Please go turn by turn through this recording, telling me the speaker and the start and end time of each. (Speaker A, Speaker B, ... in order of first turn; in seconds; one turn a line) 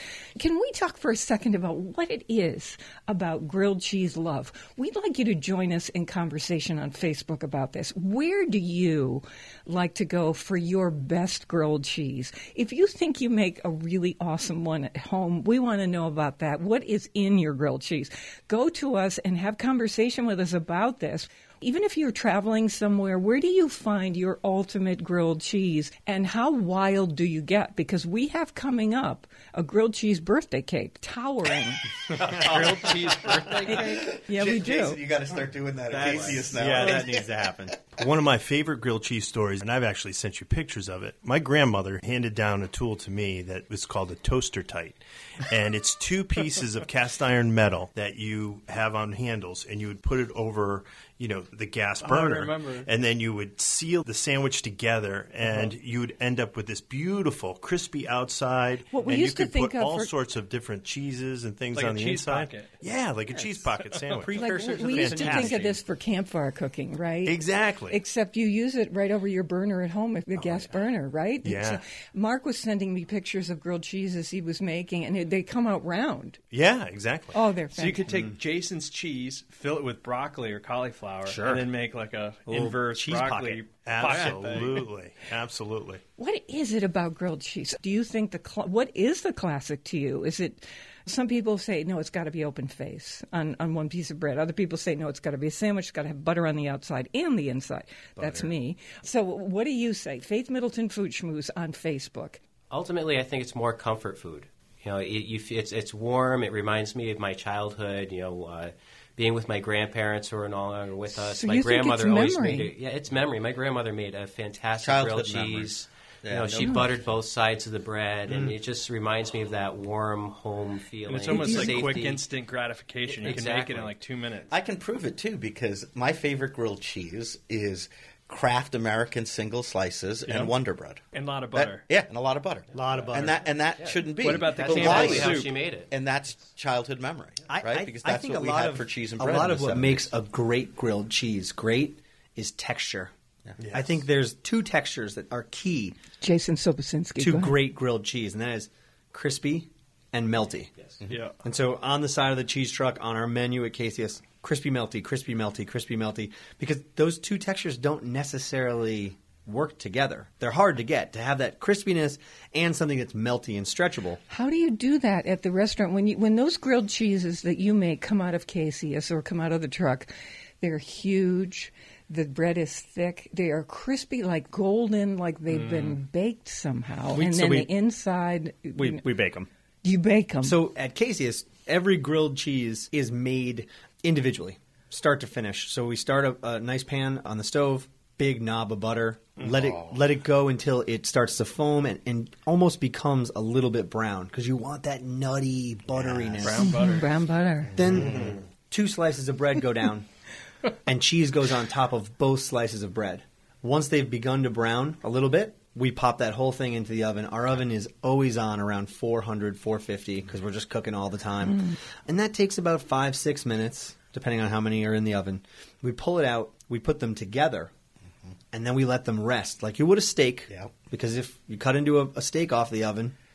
Speaker A: 0.3-31.8
Speaker B: 32.2-34.0
Speaker C: 33.6-37.3
Speaker A: 33.6-35.0
Speaker B: 35.9-36.8
Speaker D: 36.0-37.0
Speaker E: 36.0-37.8
Speaker D: 37.9-65.8
Speaker B: 52.0-52.9
Speaker A: 58.9-60.1
Speaker B: 61.7-62.8
Speaker E: 63.3-65.7
Speaker B: 63.9-64.2
Speaker A: 64.3-76.4
Speaker D: 67.2-68.0
Speaker D: 71.4-71.8
Speaker D: 76.5-77.4
Speaker A: 77.3-78.1
Speaker B: 77.7-84.9
Speaker E: 78.1-78.4
Speaker E: 81.2-81.7
Speaker E: 82.5-84.5
Speaker D: 83.8-86.0
Speaker A: 86.2-102.4
Speaker E: 98.2-98.5
Speaker F: 102.7-122.2
Speaker A: 111.1-112.7
Speaker C: 114.8-117.0
Speaker E: 118.3-118.5
Speaker B: 121.0-124.5
Speaker A: 121.3-121.8
Speaker F: 123.0-123.9
Speaker C: 124.5-140.1
Speaker B: 131.1-131.8
Speaker E: 132.7-133.4
Speaker B: 134.2-135.5
Speaker F: 134.5-135.9
Speaker E: 137.5-143.1
Speaker D: 143.6-143.9
Speaker E: 143.7-146.0
Speaker A: 146.2-147.6
Speaker E: 147.2-150.7
Speaker B: 151.1-151.4
Speaker E: 151.4-164.2
Speaker A: 164.3-179.0
Speaker B: 175.5-176.0
Speaker E: 177.1-177.7
Speaker E: 178.7-179.5
Speaker A: 179.8-180.6
Speaker E: 180.4-196.7
Speaker C: 189.5-189.8
Speaker C: 195.9-196.6
Speaker B: 196.4-197.2
Speaker A: 196.6-197.8
Speaker E: 197.7-200.1
Speaker C: 197.8-198.4
Speaker E: 200.8-217.7
Speaker E: 218.5-223.1